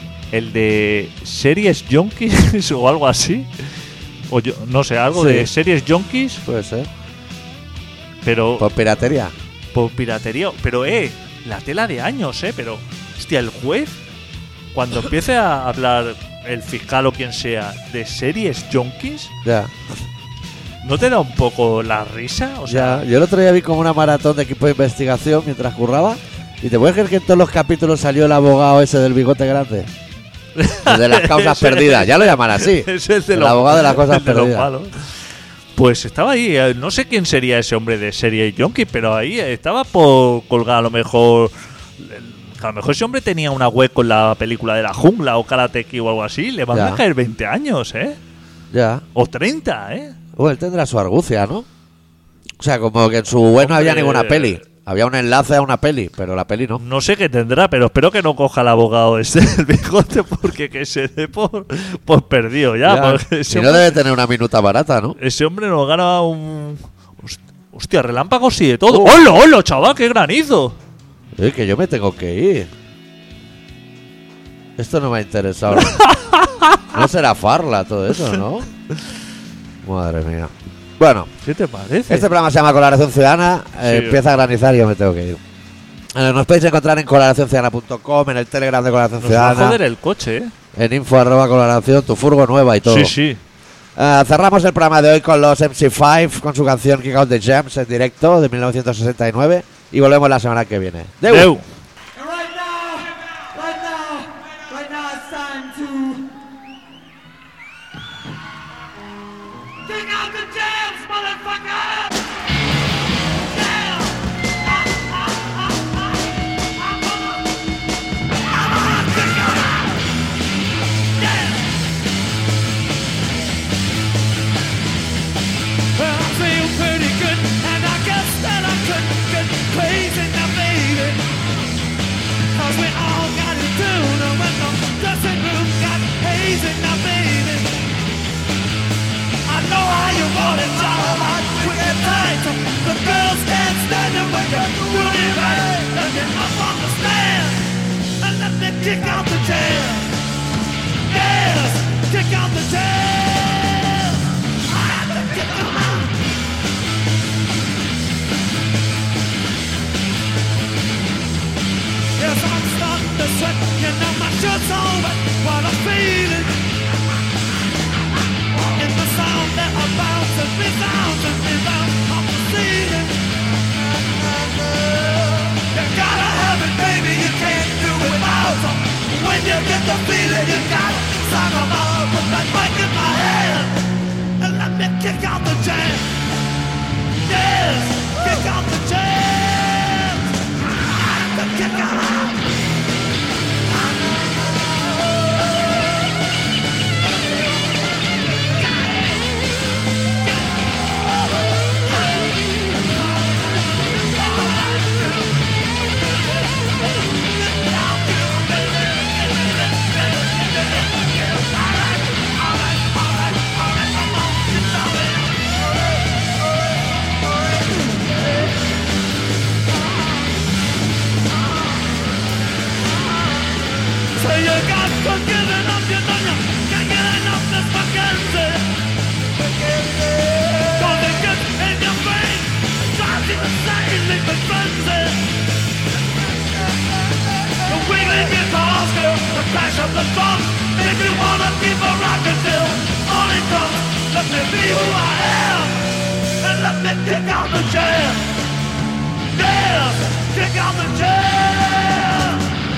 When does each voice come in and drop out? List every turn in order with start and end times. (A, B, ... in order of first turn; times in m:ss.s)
0:00.3-0:03.6 A
0:04.3-0:06.4 A
0:05.1-0:05.5 B
0:06.4-0:06.9 B
0:08.2-0:08.7 A
0:08.6-0:09.3 B
0:09.7-0:14.0 A
0:14.7-0:19.3 A
0:19.4-0:19.7 B
0:20.8-0:23.0 A
0:22.7-0:29.9 B
0:30.6-0:34.9 A
0:30.9-0:34.7 B
0:35.8-0:48.2 A
0:46.7-0:47.0 B
0:48.7-0:49.0 B
0:49.1-0:50.2 A
0:50.4-0:51.7 B
0:52.6-0:56.8 B
0:53.6-0:54.6 A
0:56.8-1:04.0 A
1:02.8-1:05.2 B
1:05.2-1:10.8 A
1:08.9-1:09.2 B
1:11.4-1:12.7 B
1:14.8-1:16.0 B
1:15.8-1:16.9 A
1:16.9-1:18.7 B
1:19.8-1:21.3 B
1:21.4-1:22.3 A
1:22.1-1:25.4 B
1:23.8-1:24.2 A
1:26.1-1:29.8 B
1:29.2-1:30.5 A
1:30.7-1:33.1 B
1:32.8-1:33.4 A
1:34.0-1:41.5 B
1:41.2-1:41.6 A
1:42.2-1:46.2 C
1:49.8-1:52.1 C
1:53.4-1:56.0 C
1:56.8-1:57.4 C
1:58.5-2:00.0 C
2:01.2-2:01.8 C
2:05.9-2:11.2 C
2:12.5-2:17.8 C
2:19.4-2:30.1 C
2:31.1-2:36.1 C
2:42.2-2:46.6 C
2:48.7-2:53.2 C
2:54.7-3:03.8 C
3:04.4-3:06.1 C
3:07.2-3:10.3 C
3:10.9-3:12.4 C
3:18.8-3:19.2 C
3:22.6-3:25.2 C
3:27.3-3:35.6 C
3:44.1-3:48.7 C
3:50.1-3:55.2 C
3:57.6-4:05.8 C
4:06.4-4:08.4 C
4:09.3-4:12.4 C